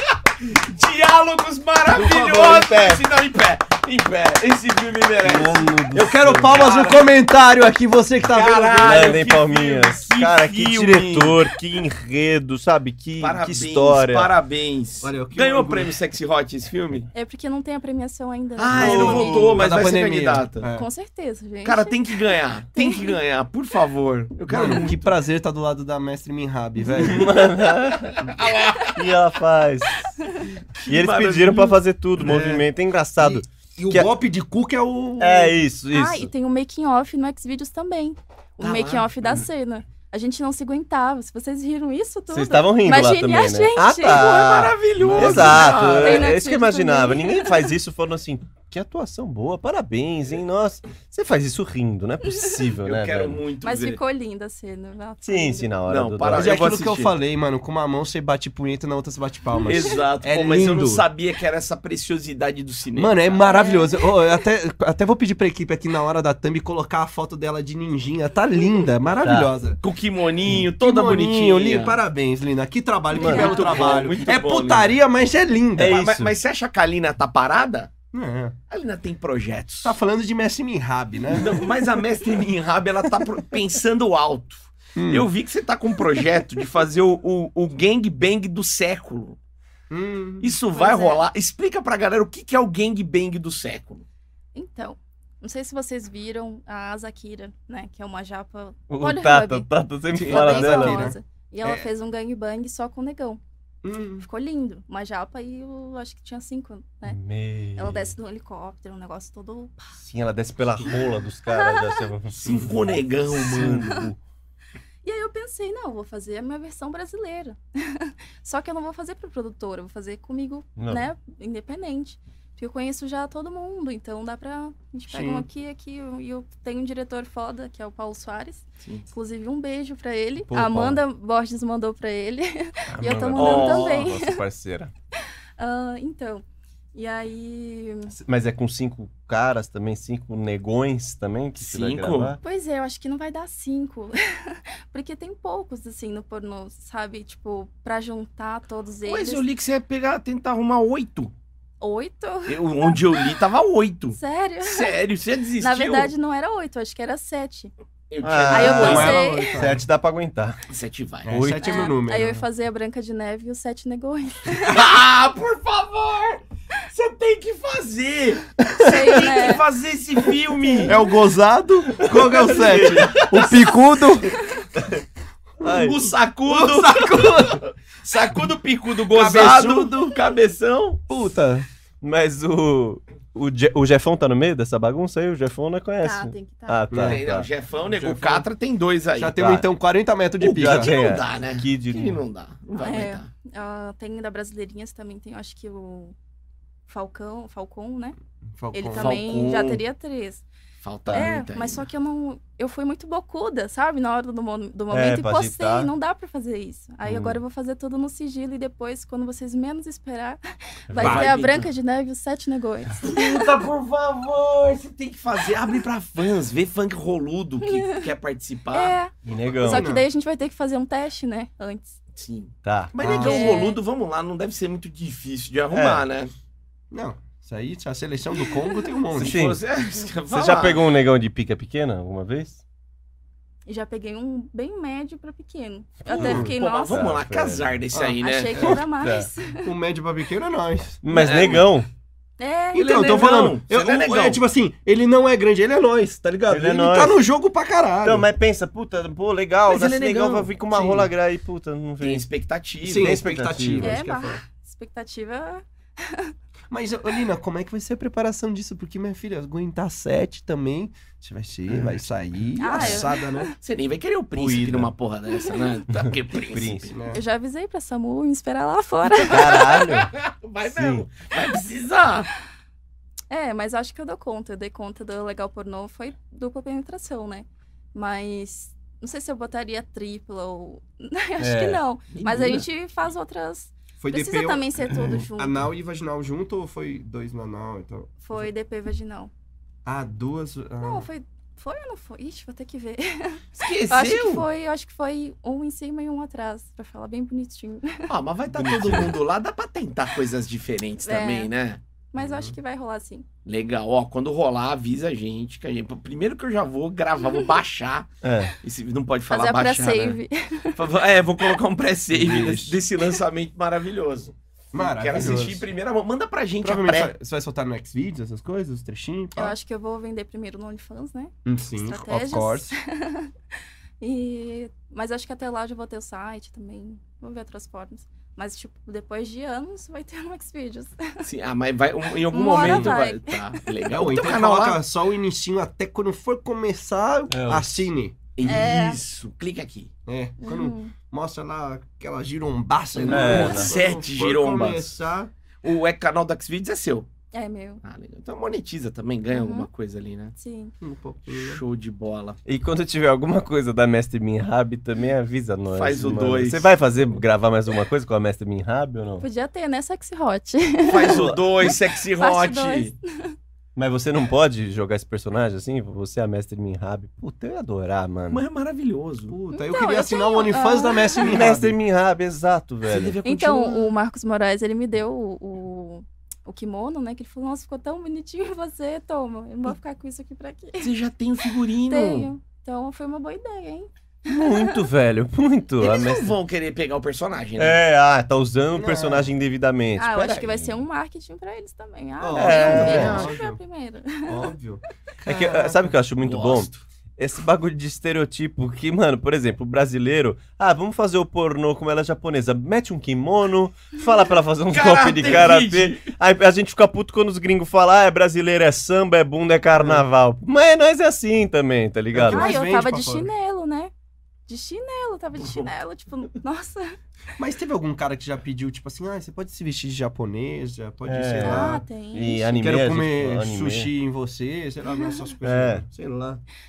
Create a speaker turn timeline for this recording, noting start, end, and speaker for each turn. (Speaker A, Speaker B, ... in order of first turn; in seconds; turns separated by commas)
Speaker A: 0.4-5.7, Speaker B: 1.9-3.0, Speaker C: 2.2-2.8, Speaker C: 5.2-6.7, Speaker B: 5.9-9.2, Speaker A: 6.5-7.1, Speaker A: 8.3-11.4, Speaker C: 8.8-14.3, Speaker A: 13.2-17.1, Speaker B: 15.0-15.9, Speaker D: 17.1-19.3, Speaker A: 18.6-20.6, Speaker C: 18.7-19.7, Speaker B: 18.7-20.9, Speaker D: 20.7-23.1, Speaker A: 21.6-25.1, Speaker B: 24.5-27.3, Speaker C: 26.9-28.3, Speaker A: 27.1-29.0, Speaker C: 28.9-30.1, Speaker A: 30.7-31.8, Speaker C: 30.9-34.1, Speaker B: 32.2-32.6, Speaker B: 33.2-35.5, Speaker C: 35.2-36.3, Speaker D: 35.9-44.7, Speaker A: 38.6-39.1, Speaker C: 42.3-53.4, Speaker A: 44.1-46.3, Speaker B: 45.0-45.8, Speaker D: 45.5-47.7, Speaker A: 52.8-54.0, Speaker D: 53.6-55.7, Speaker C: 55.2-56.6, Speaker A: 55.9-57.1, Speaker B: 56.3-61.0, Speaker A: 59.6-63.2, Speaker B: 63.0-69.8, Speaker D: 63.4-64.2, Speaker C: 69.2-69.5, Speaker A: 69.8-72.0, Speaker B: 70.8-76.0, Speaker D: 73.1-73.9, Speaker C: 73.1-73.7, Speaker A: 73.2-74.9, Speaker C: 75.8-76.3, Speaker A: 75.8-77.9, Speaker B: 78.1-78.5, Speaker A: 78.7-79.9, Speaker B: 79.8-81.8, Speaker A: 81.3-89.4, Speaker B: 85.0-85.3, Speaker B: 89.9-90.5, Speaker A: 90.4-94.0, Speaker D: 90.7-91.2, Speaker D: 94.5-103.4, Speaker C: 98.9-101.1, Speaker B: 100.1-101.8, Speaker B: 103.8-104.2, Speaker D: 104.2-107.2, Speaker C: 107.0-108.1, Speaker D: 107.8-109.9, Speaker C: 110.0-114.2, Speaker D: 111.5-112.1, Speaker A: 112.4-114.0, Speaker D: 115.0-134.4, Speaker C: 120.8-121.0, Speaker B: 125.1-125.5, Speaker A: 128.8-129.1, Speaker C: 130.4-131.0, Speaker C: 132.9-134.9, Speaker A: 133.3-134.1, Speaker D: 135.6-136.4, Speaker D: 136.9-138.1, Speaker C: 138.1-142.4, Speaker A: 141.6-142.4, Speaker D: 142.4-149.4, Speaker A: 149.1-151.3, Speaker D: 151.8-153.3, Speaker A: 152.5-156.1, Speaker D: 154.1-155.0, Speaker D: 155.6-157.7, Speaker A: 158.1-159.2, Speaker C: 158.2-160.6, Speaker D: 158.5-159.6, Speaker B: 158.5-159.8, Speaker A: 160.7-161.3, Speaker B: 161.2-162.4, Speaker C: 161.3-161.9, Speaker D: 161.6-164.8, Speaker A: 164.6-171.0, Speaker B: 168.6-169.0, Speaker D: 168.8-169.6, Speaker D: 170.6-171.1, Speaker B: 170.8-174.3, Speaker C: 172.1-173.5, Speaker A: 172.5-173.7, Speaker C: 174.7-175.0, Speaker C: 175.6-176.0, Speaker A: 175.7-181.0, Speaker B: 176.4-177.6, Speaker B: 179.1-180.1, Speaker B: 181.1-181.7, Speaker C: 182.0-187.5, Speaker D: 186.0-186.8, Speaker B: 186.9-187.2, Speaker A: 187.0-189.6, Speaker B: 187.8-188.5, Speaker B: 189.2-190.9, Speaker A: 190.4-193.3, Speaker C: 190.5-192.2, Speaker D: 192.8-196.1, Speaker D: 196.9-198.2, Speaker B: 198.6-199.2, Speaker D: 198.7-200.4, Speaker A: 198.9-199.8, Speaker A: 200.8-201.9, Speaker D: 201.1-213.4, Speaker C: 204.9-205.9, Speaker C: 207.0-207.4, Speaker C: 210.9-211.3, Speaker A: 211.0-211.7, Speaker A: 213.0-219.0, Speaker D: 217.6-218.1, Speaker D: 218.7-222.0, Speaker C: 219.2-219.9, Speaker B: 219.6-220.0, Speaker A: 222.1-226.3, Speaker C: 222.6-222.9, Speaker B: 223.0-223.6, Speaker D: 223.0-223.8, Speaker C: 225.7-226.0, Speaker B: 226.9-229.4, Speaker A: 229.2-230.8, Speaker C: 229.2-229.6, Speaker C: 230.3-232.6, Speaker D: 233.7-237.1, Speaker C: 236.1-237.7, Speaker A: 236.2-238.5, Speaker B: 237.9-238.8, Speaker D: 238.2-239.7, Speaker C: 238.6-239.3, Speaker B: 239.6-241.0, Speaker C: 241.0-241.9, Speaker A: 241.1-241.6, Speaker D: 242.4-243.3, Speaker A: 242.7-244.4, Speaker B: 242.7-248.2, Speaker C: 246.5-247.2, Speaker C: 248.0-252.2, Speaker A: 249.7-251.0, Speaker A: 252.0-253.2, Speaker B: 252.8-254.4, Speaker C: 252.9-254.0, Speaker D: 253.8-256.3, Speaker B: 256.7-263.5, Speaker C: 261.7-262.0, Speaker D: 262.6-263.5, Speaker C: 262.7-263.0, Speaker A: 263.6-266.9, Speaker C: 264.3-264.9, Speaker D: 265.4-265.7, Speaker C: 265.9-266.9, Speaker B: 266.9-267.2, Speaker D: 267.1-269.8, Speaker C: 269.3-270.1, Speaker A: 269.5-272.3, Speaker C: 270.6-271.1, Speaker D: 273.3-285.6, Speaker C: 281.4-281.8, Speaker A: 282.1-282.6, Speaker B: 284.0-288.5, Speaker D: 288.2-289.3, Speaker B: 289.8-291.1, Speaker D: 290.8-298.1, Speaker A: 293.5-294.4, Speaker A: 298.1-301.8, Speaker C: 298.5-299.1, Speaker D: 301.0-301.5, Speaker D: 302.1-303.2, Speaker B: 302.2-302.5, Speaker A: 303.4-308.1, Speaker C: 308.2-308.5, Speaker A: 308.6-310.2, Speaker D: 309.3-310.8, Speaker A: 310.8-317.1, Speaker B: 312.1-312.8, Speaker B: 314.7-315.7, Speaker B: 316.6-319.5, Speaker D: 319.3-323.3, Speaker B: 321.4-322.7, Speaker D: 324.0-331.3, Speaker A: 331.2-334.8, Speaker D: 332.3-333.8, Speaker B: 332.5-333.0, Speaker B: 333.9-338.1, Speaker C: 337.3-337.9, Speaker A: 338.4-339.9, Speaker D: 338.4-339.0, Speaker B: 340.1-345.3, Speaker D: 340.4-340.9, Speaker A: 342.9-344.9, Speaker C: 343.1-343.7, Speaker A: 345.6-347.1, Speaker D: 347.3-347.8, Speaker A: 347.8-350.3, Speaker D: 349.3-349.7, Speaker D: 350.4-350.7, Speaker B: 350.8-351.6, Speaker A: 351.3-352.4, Speaker C: 352.4-359.2, Speaker A: 355.7-356.7, Speaker D: 359.2-363.4, Speaker A: 360.8-362.9, Speaker C: 361.1-361.4, Speaker C: 363.7-368.4, Speaker A: 368.3-369.3, Speaker B: 369.3-371.8, Speaker D: 369.5-371.3, Speaker C: 371.2-373.2, Speaker A: 372.9-373.9, Speaker D: 373.2-380.9, Speaker A: 380.8-382.3, Speaker D: 381.9-384.8, Speaker C: 384.2-386.3, Speaker A: 385.8-387.8, Speaker C: 387.6-390.8, Speaker B: 388.7-389.3, Speaker D: 389.9-394.5, Speaker B: 392.2-393.6, Speaker A: 392.4-393.3, Speaker C: 392.4-393.2, Speaker B: 394.2-395.9, Speaker C: 395.2-412.5, Speaker A: 396.2-396.8, Speaker A: 404.7-406.1, Speaker B: 409.8-410.0, Speaker B: 412.1-413.3, Speaker D: 412.3-413.9, Speaker D: 414.5-417.0, Speaker A: 415.4-415.7, Speaker B: 417.4-421.8, Speaker C: 421.1-423.9, Speaker D: 421.4-422.6, Speaker B: 422.5-426.4, Speaker D: 424.9-425.2, Speaker C: 425.4-425.8